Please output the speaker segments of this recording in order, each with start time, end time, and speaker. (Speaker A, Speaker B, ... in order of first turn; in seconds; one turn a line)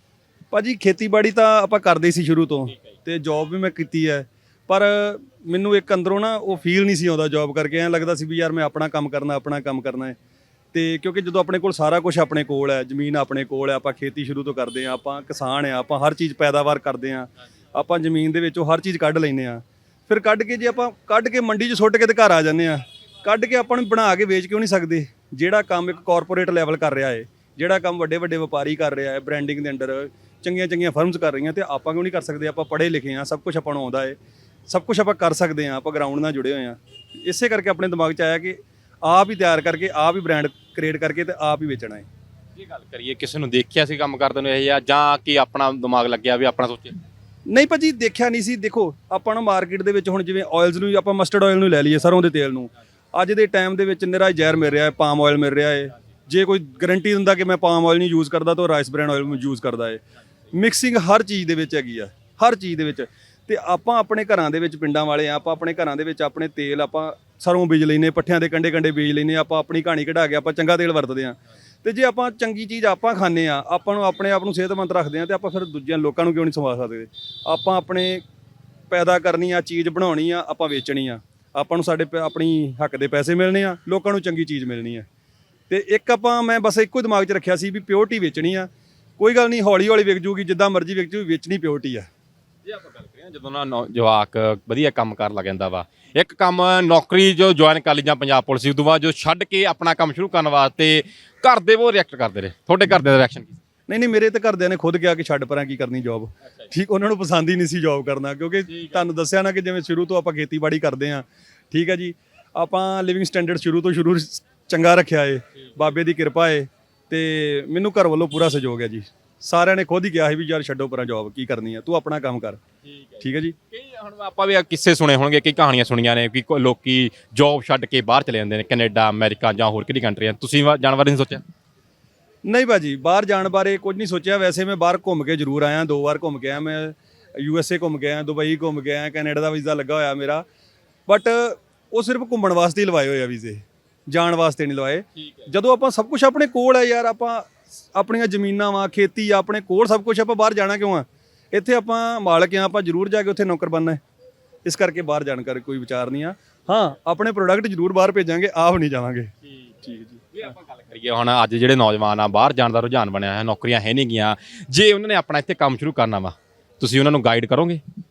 Speaker A: 0.5-10.2
Speaker A: 10.7-34.1
Speaker A: 34.7-42.1
Speaker B: 42.6-47.0
Speaker A: 47.5-60.0
Speaker A: 60.5-78.2
Speaker A: 78.9-85.0
Speaker A: 85.7-92.1
Speaker B: 92.7-103.6
Speaker A: 103.9-122.6
Speaker B: 122.9-131.4
Speaker A: 123.2-123.5
Speaker A: 132.4-140.4
Speaker A: 141.1-154.0
Speaker A: 154.6-159.3
Speaker B: 159.6-167.8
Speaker A: 159.8-160.2